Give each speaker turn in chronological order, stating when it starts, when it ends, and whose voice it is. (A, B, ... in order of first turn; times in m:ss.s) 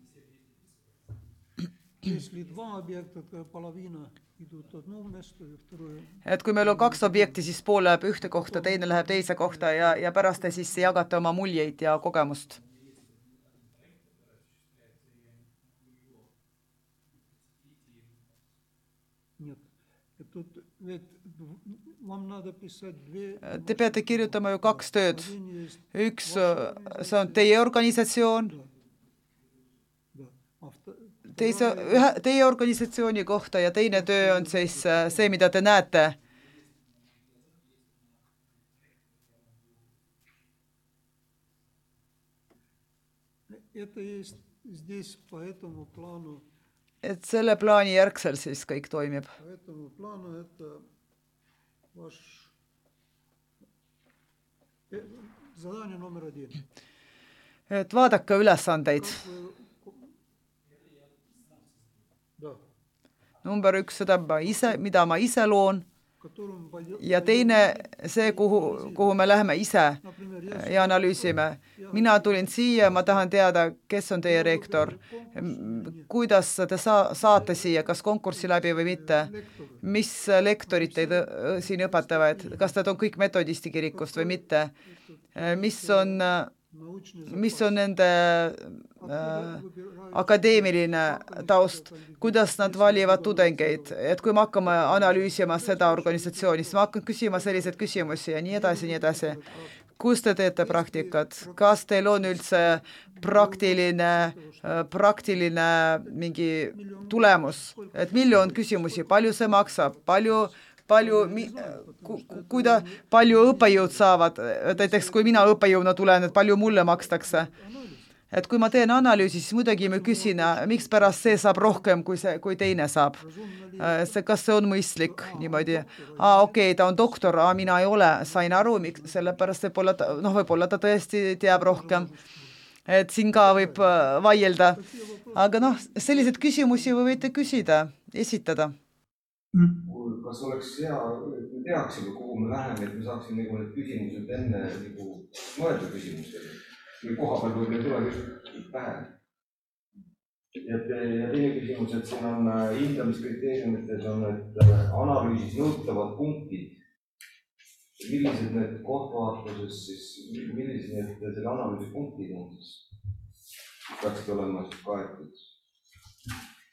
0:02.0-0:07.4 A
0:06.2-0:12.6 B
0:08.2-0:10.7 A
0:19.4-0:19.7 A
0:20.2-0:27.6 A
0:23.5-0:25.3 B
0:25.9-0:28.6 B
0:30.1-0:32.2 A
0:31.3-0:36.2 B
0:33.9-0:35.3 A
0:43.5-0:46.4 A
0:47.0-0:49.3 B
0:49.4-0:50.8 A
0:51.9-0:52.5 A
0:54.9-0:56.6 A
0:57.7-0:59.2 B
0:58.9-1:00.1 A
1:03.4-1:05.8 B
1:06.2-1:09.3 A
1:07.0-1:19.3 B
1:10.0-1:13.3 A
1:14.2-1:16.1 A
1:17.2-1:19.9 A
1:19.8-1:24.7 B
1:20.6-1:22.8 A
1:23.9-1:27.8 A
1:25.4-1:26.5 B
1:27.3-1:29.6 B
1:29.0-1:39.8 A
1:30.1-1:39.4 B
1:40.0-1:57.5 B
1:40.6-1:54.1 A
1:54.6-1:58.1 A
1:58.3-2:03.2 B
1:59.8-2:01.9 A
2:03.2-2:04.3 A
2:03.8-2:12.1 B
2:05.0-2:06.9 A
2:08.2-2:09.4 A
2:11.5-2:12.5 A
2:12.9-2:14.8 B
2:13.3-2:17.5 A
2:15.3-2:18.7 B
2:19.8-2:29.1 C
2:30.6-2:36.7 C
2:38.0-2:42.8 C
2:43.9-2:45.4 C